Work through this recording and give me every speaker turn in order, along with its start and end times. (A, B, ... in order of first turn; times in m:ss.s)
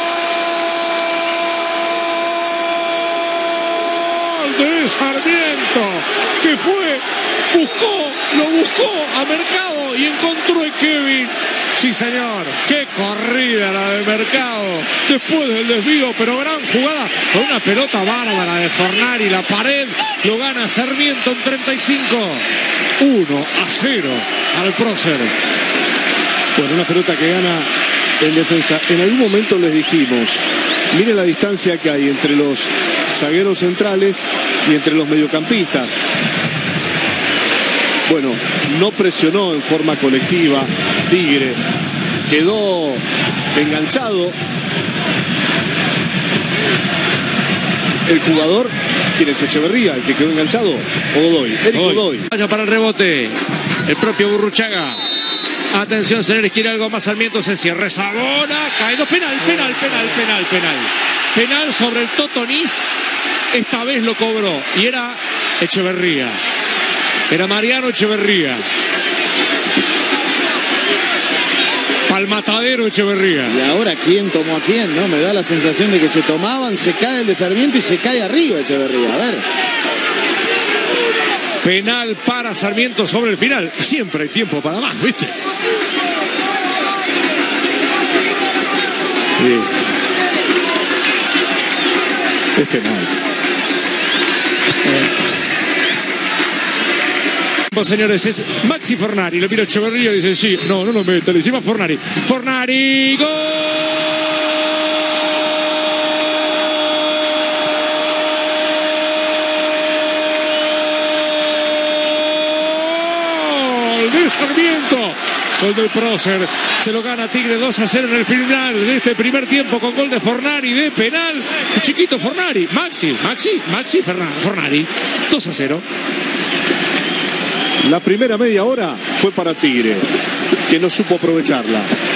0:03.8-0:22.4 A
0:23.0-0:25.3 A
0:26.6-0:30.4 B
0:30.9-0:36.0 B
0:38.1-0:41.6 B
0:42.3-0:43.0 B
0:43.6-0:44.4 B
0:48.1-0:52.3 B
0:51.7-0:55.0 A
0:55.7-1:02.8 A
1:03.5-1:06.4 A
1:07.3-1:08.6 A
1:12.1-1:13.6 A
1:13.5-1:19.4 C
1:21.6-1:25.4 A
1:29.4-1:29.8 B
1:32.6-1:33.1 B
1:37.7-1:44.4 A
1:51.5-2:05.8 A
2:07.8-2:10.1 B
2:10.7-2:11.9 B